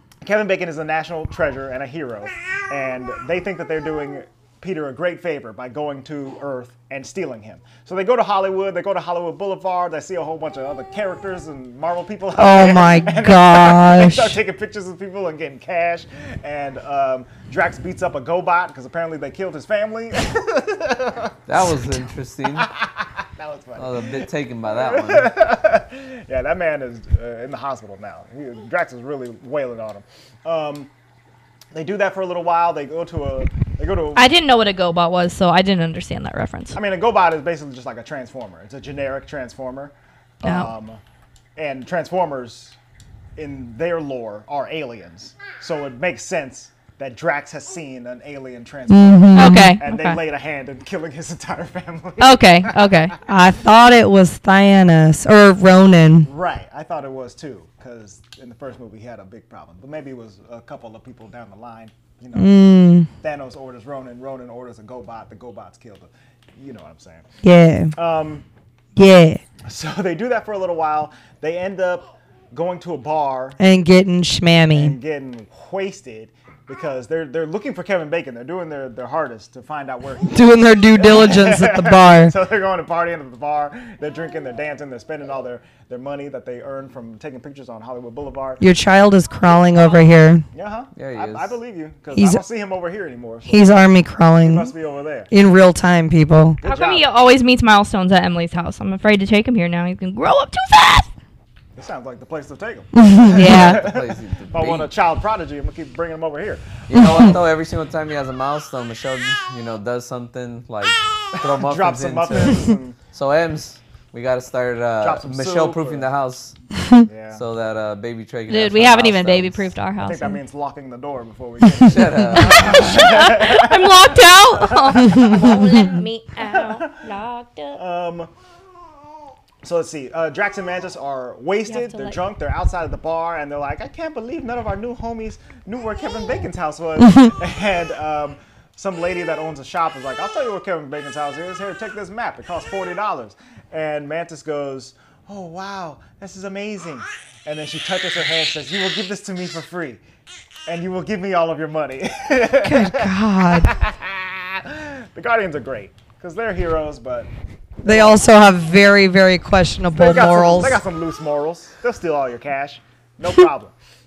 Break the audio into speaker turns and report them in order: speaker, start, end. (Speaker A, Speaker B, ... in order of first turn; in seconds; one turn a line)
Speaker A: 0.2-21.4
Speaker B: 12.4-14.4
Speaker C: 21.5-22.7
Speaker A: 22.5-30.9
Speaker C: 23.8-25.3
Speaker A: 31.7-34.3
Speaker D: 34.1-36.8
Speaker A: 36.8-41.0
Speaker D: 40.4-40.7
Speaker A: 41.6-42.8
Speaker A: 43.4-53.2
Speaker B: 48.9-49.8
Speaker D: 49.4-50.2
Speaker D: 52.2-53.1
Speaker B: 53.3-56.3
Speaker A: 56.2-67.3
Speaker B: 62.4-63.1
Speaker B: 67.4-67.9
Speaker A: 68.0-68.5
Speaker B: 69.0-69.4
Speaker A: 69.7-73.6
Speaker B: 73.6-75.0
Speaker A: 74.7-88.6
Speaker B: 80.3-82.3
Speaker B: 88.6-90.4
Speaker D: 89.8-90.1
Speaker A: 90.5-93.8
Speaker C: 91.0-91.6
Speaker B: 92.1-92.4
Speaker B: 93.5-94.7
Speaker A: 94.4-95.3
Speaker B: 95.3-96.6
Speaker A: 96.6-97.1
Speaker D: 96.6-101.1
Speaker A: 101.8-107.4
Speaker B: 102.9-103.8
Speaker D: 103.3-103.8
Speaker C: 103.4-104.9
Speaker C: 106.9-116.6
Speaker B: 107.0-107.2
Speaker A: 111.3-113.0
Speaker A: 115.0-116.1
Speaker B: 116.8-117.1
Speaker A: 117.1-117.4
Speaker C: 117.3-119.6
Speaker D: 118.5-120.4
Speaker A: 120.0-127.0
Speaker C: 121.8-123.1
Speaker D: 122.4-127.8
Speaker B: 125.0-125.6
Speaker A: 127.8-128.3
Speaker A: 129.6-150.0
Speaker D: 131.7-132.2
Speaker A: 150.7-157.3
Speaker B: 152.6-153.7
Speaker A: 157.8-158.2
Speaker B: 157.8-160.8
Speaker A: 159.9-163.7